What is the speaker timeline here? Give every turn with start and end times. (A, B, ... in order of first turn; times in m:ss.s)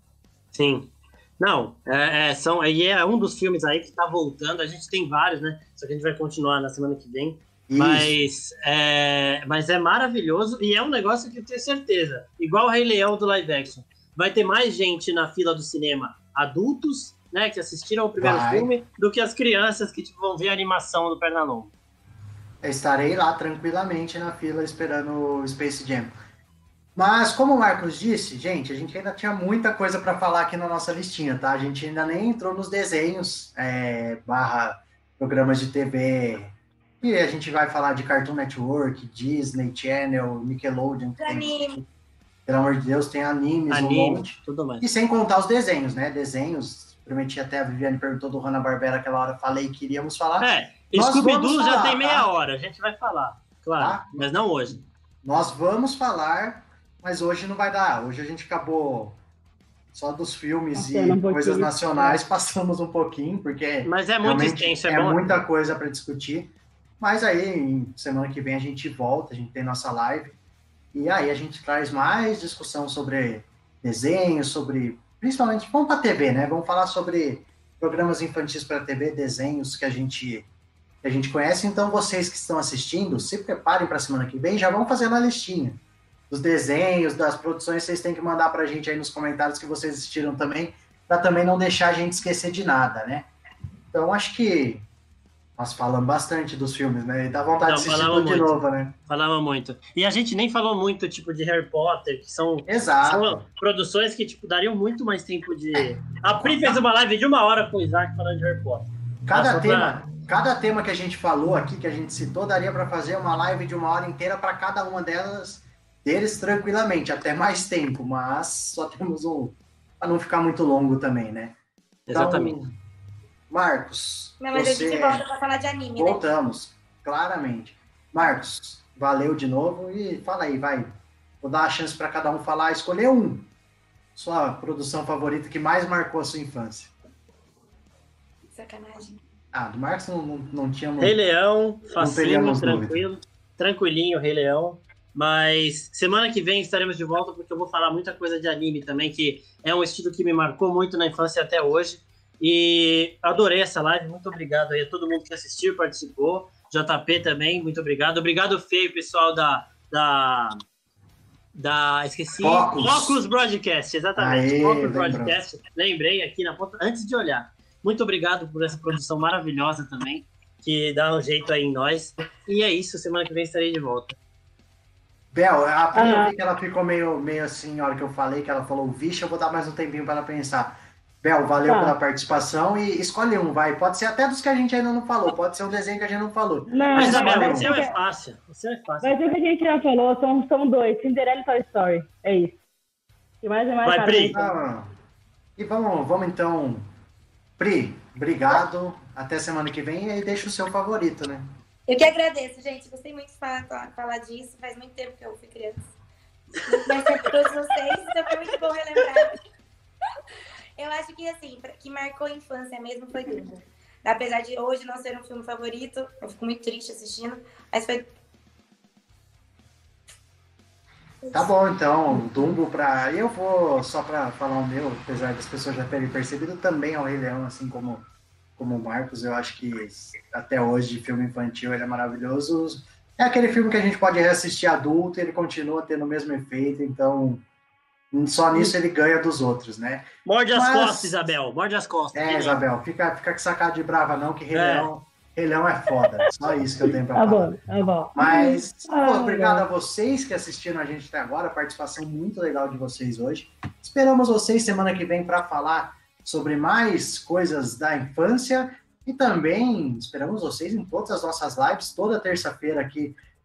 0:00.5-0:21.7 A
0:07.7-0:08.2 B
0:18.2-0:18.7 B
0:22.6-0:26.1 B
0:27.0-0:41.9 B
0:41.2-0:41.8 C
0:42.5-0:52.3 B
0:43.7-0:44.9 A
0:50.4-0:54.8 A
0:53.8-0:54.3 B
0:55.2-0:59.2 B
0:59.9-1:10.4 B
1:00.8-1:02.2 D
1:03.8-1:05.4 A
1:10.9-1:20.5 B
1:21.0-1:33.3 B
1:33.9-1:34.8 B
1:35.6-1:39.0 B
1:37.6-1:38.6 A
1:39.1-1:50.0 A
1:42.7-1:43.4 B
1:45.7-1:46.8 B
1:49.3-2:01.6 B
2:02.1-2:02.6 A
2:02.1-2:02.8 B
2:03.5-2:05.2 B
2:04.4-2:06.2 C
2:06.0-2:13.5 B
2:14.2-2:16.9 B
2:18.5-2:19.2 C
2:19.5-2:21.2 B
2:21.0-2:40.6 A
2:22.0-2:23.0 B
2:41.5-2:54.2 A
2:42.4-2:43.2 B
2:44.2-2:45.4 B
2:55.3-3:07.8 B
2:56.0-2:56.3 D
3:01.6-3:02.0 D
3:06.7-3:08.0 D
3:06.9-3:09.3 A
3:09.0-3:12.6 D
3:13.4-3:14.6 D
3:13.8-3:14.4 A
3:14.3-3:14.9 B
3:15.6-3:16.9 B
3:17.6-3:21.4 B
3:21.9-3:25.9 C
3:26.6-3:29.4 C
3:30.8-3:38.1 C
3:41.2-3:41.5 C
3:41.3-3:48.0 B
3:48.6-3:57.4 B
3:58.1-4:01.3 B
4:00.3-4:02.6 A
4:02.1-4:07.6 B
4:04.5-4:04.9 A
4:07.1-4:09.7 D
4:08.1-4:23.2 B